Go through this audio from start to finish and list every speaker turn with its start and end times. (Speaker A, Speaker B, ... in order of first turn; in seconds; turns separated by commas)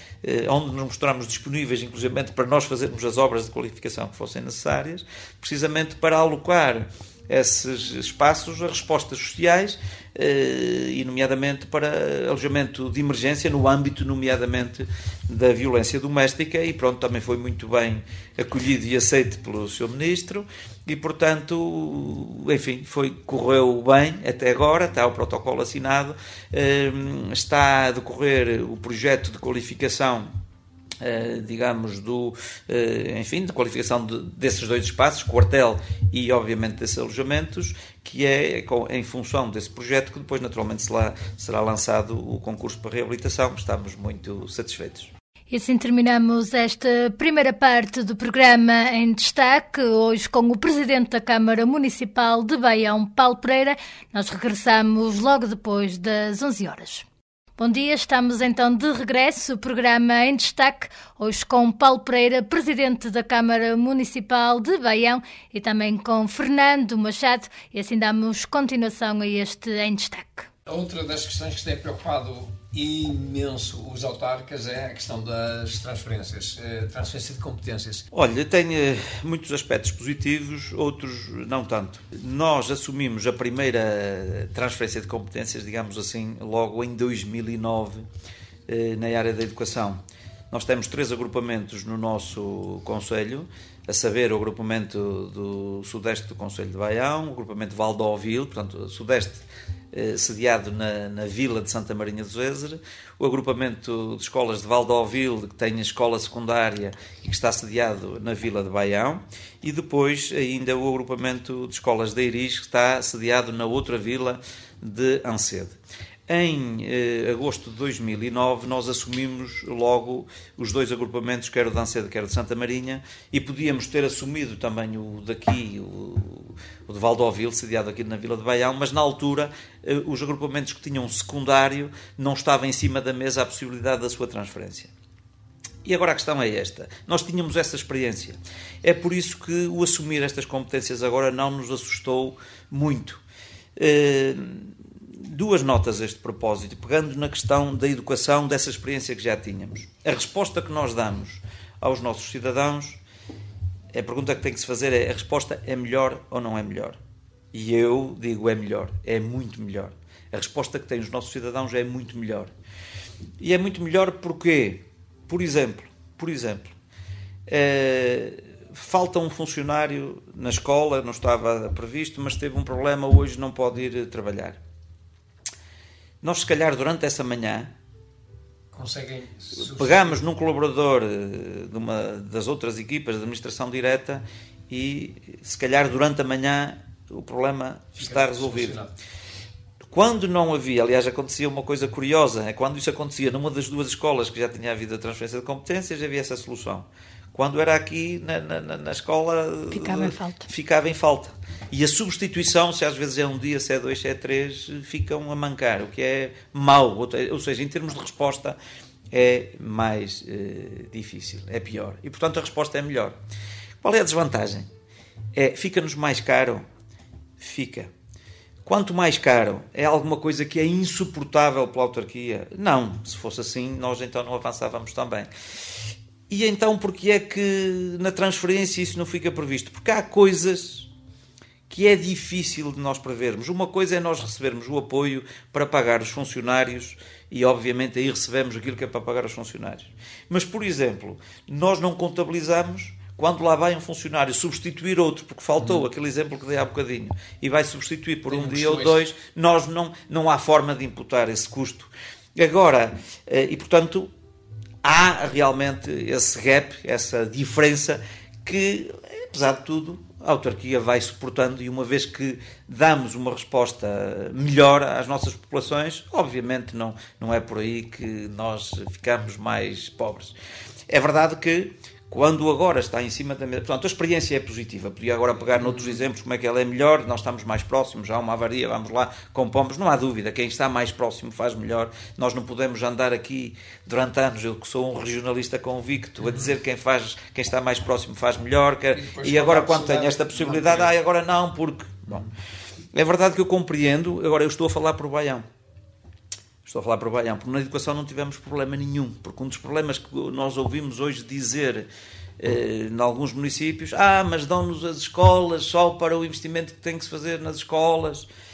Speaker A: 0.2-30.3, Speaker A: 31.0-45.1, Speaker B: 45.5-57.1, Speaker B: 57.6-70.5, Speaker C: 70.7-78.1, Speaker A: 78.1-88.1, Speaker A: 88.7-90.0, Speaker A: 90.5-115.8, Speaker A: 116.3-134.9, Speaker A: 135.8-143.2, Speaker A: 143.8-153.0, Speaker A: 153.9-157.0, Speaker A: 157.5-162.5, Speaker A: 163.4-166.7, Speaker A: 167.5-174.6, Speaker A: 176.2-177.7, Speaker C: 178.7-180.2, Speaker A: 179.6-188.8, Speaker C: 188.0-188.9, Speaker A: 189.9-208.6, Speaker B: 199.7-200.5, Speaker A: 209.1-213.2, Speaker A: 213.8-214.7, Speaker A: 215.3-216.6, Speaker A: 217.4-217.9, Speaker A: 218.7-225.3, Speaker A: 226.3-230.9, Speaker A: 231.7-254.1, Speaker C: 248.3-249.0, Speaker A: 254.8-270.4, Speaker A: 270.9-292.3, Speaker C: 288.9-290.9, Speaker A: 292.9-295.4, Speaker A: 296.6-301.9, Speaker A: 302.4-308.3